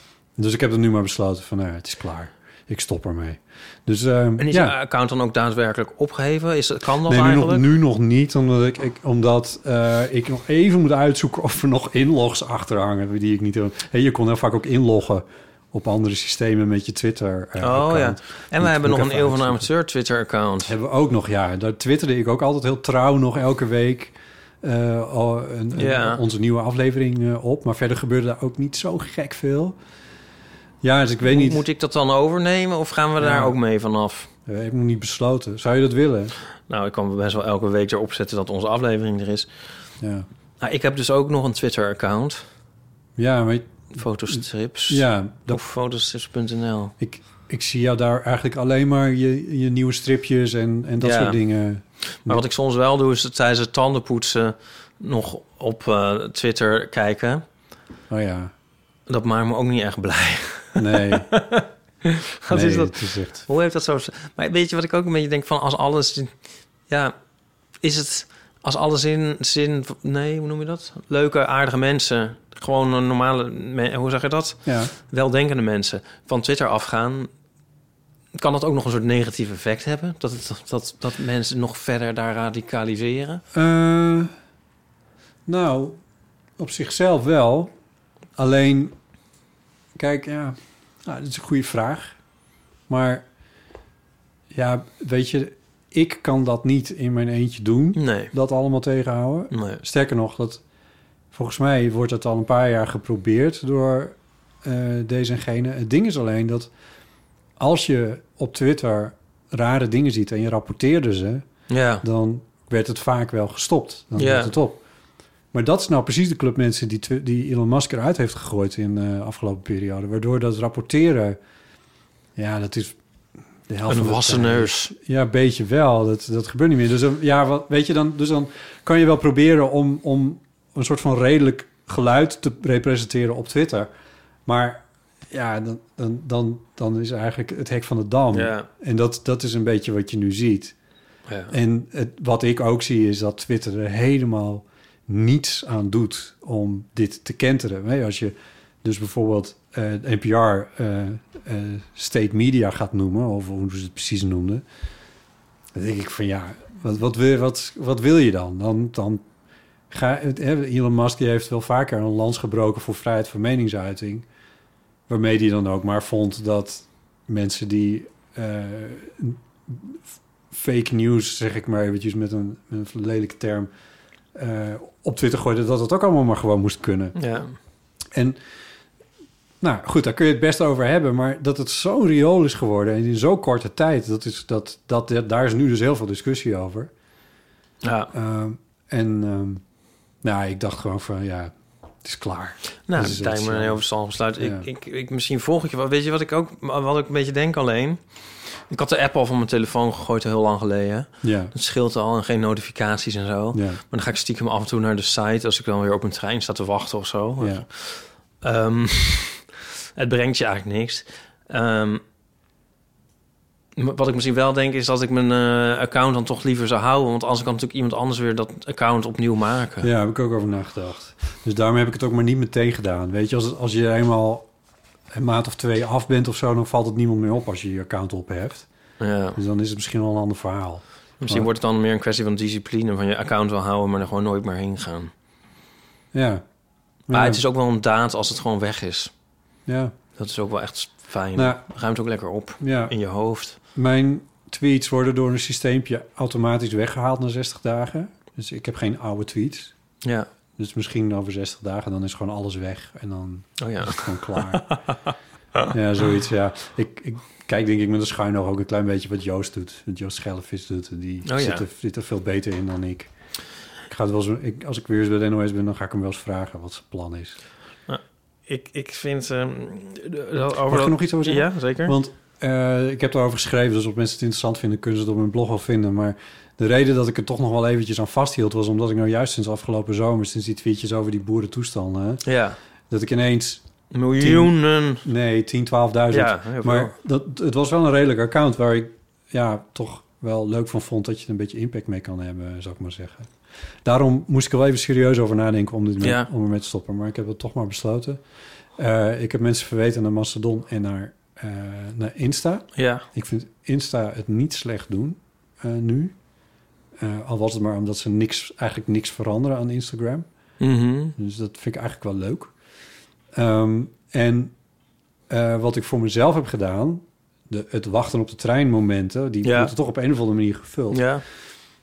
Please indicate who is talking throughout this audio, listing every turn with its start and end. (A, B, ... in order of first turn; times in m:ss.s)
0:00.4-0:04.8 A
0:04.4-0:07.6 B
0:07.0-0:19.7 A
0:17.6-0:20.7 B
0:20.6-0:29.8 A
0:25.8-0:26.2 B
0:30.8-0:31.6 A
0:31.2-0:34.3 B
0:33.2-0:33.6 A
0:34.5-0:36.3 A
0:36.7-0:39.5 B
0:40.0-0:40.3 A
0:40.6-0:42.4 B
0:43.2-0:45.6 A
0:44.0-0:46.9 B
0:47.0-0:52.4 A
0:51.0-0:51.4 B
0:52.2-0:57.4 B
0:58.1-0:58.5 A
0:59.1-1:06.3 B
1:00.8-1:01.3 A
1:02.5-1:03.4 A
1:06.9-1:07.1 B
1:07.8-1:17.3 B
1:14.6-1:14.9 A
1:18.4-1:23.4 B
1:23.5-1:24.3 A
1:25.5-1:26.0 A
1:26.6-1:27.7 A
1:28.4-1:28.9 A
1:30.0-1:32.1 A
1:32.9-1:33.2 A
1:34.5-1:40.6 A
1:38.0-1:38.3 B
1:39.5-1:39.8 B
1:41.3-1:46.7 A
1:47.6-1:51.4 A
1:51.7-1:52.0 B
1:52.0-1:54.8 A
1:54.2-1:54.5 B
1:55.5-2:01.4 A
2:02.4-2:03.0 A
2:03.7-2:13.9 A
2:03.9-2:04.9 B
2:14.5-2:20.8 A
2:18.3-2:18.7 B
2:21.3-2:21.5 B
2:21.5-2:34.6 A
2:35.7-2:39.2 A
2:39.9-2:44.2 A
2:45.1-2:53.7 A
2:54.3-2:57.2 A
2:57.2-2:57.5 B
2:58.1-2:58.4 A
2:59.6-3:06.9 A
3:07.8-3:08.1 B
3:08.1-3:09.6 A
3:10.2-3:13.8 A
3:12.9-3:18.0 B
3:14.4-3:14.7 A
3:18.7-3:29.4 B
3:21.2-3:21.5 A
3:23.5-3:23.8 A
3:27.4-3:27.6 A
3:30.0-3:32.0 B
3:33.8-3:39.9 B
3:39.8-3:44.5 A
3:45.1-3:48.7 A
3:49.0-3:49.4 B
3:49.4-3:51.5 A
3:51.2-3:55.1 B
3:56.1-3:56.4 A
3:57.1-3:57.4 A
3:57.1-3:59.1 B
3:59.7-4:00.0 A
4:00.2-4:03.6 B
4:01.4-4:01.6 A
4:02.6-4:02.9 A
4:03.8-4:09.7 A
4:10.6-4:14.7 A
4:13.6-4:15.0 B
4:15.7-4:23.1 A
4:21.2-4:21.6 B
4:23.9-4:27.4 A
4:27.9-4:32.0 B
4:30.7-4:42.2 A
4:42.2-4:42.6 B
4:42.9-4:43.6 A
4:43.9-4:45.0 B
4:44.2-4:53.3 A
4:46.1-4:46.9 B
4:53.8-4:58.2 A
4:56.0-4:56.3 B
4:58.8-5:06.1 A
5:02.8-5:03.0 B
5:07.0-5:10.3 A
5:10.6-5:11.1 B
5:11.2-5:12.5 A
5:13.4-5:14.5 A
5:15.3-5:21.0 A
5:19.4-5:19.7 B
5:20.9-5:21.2 B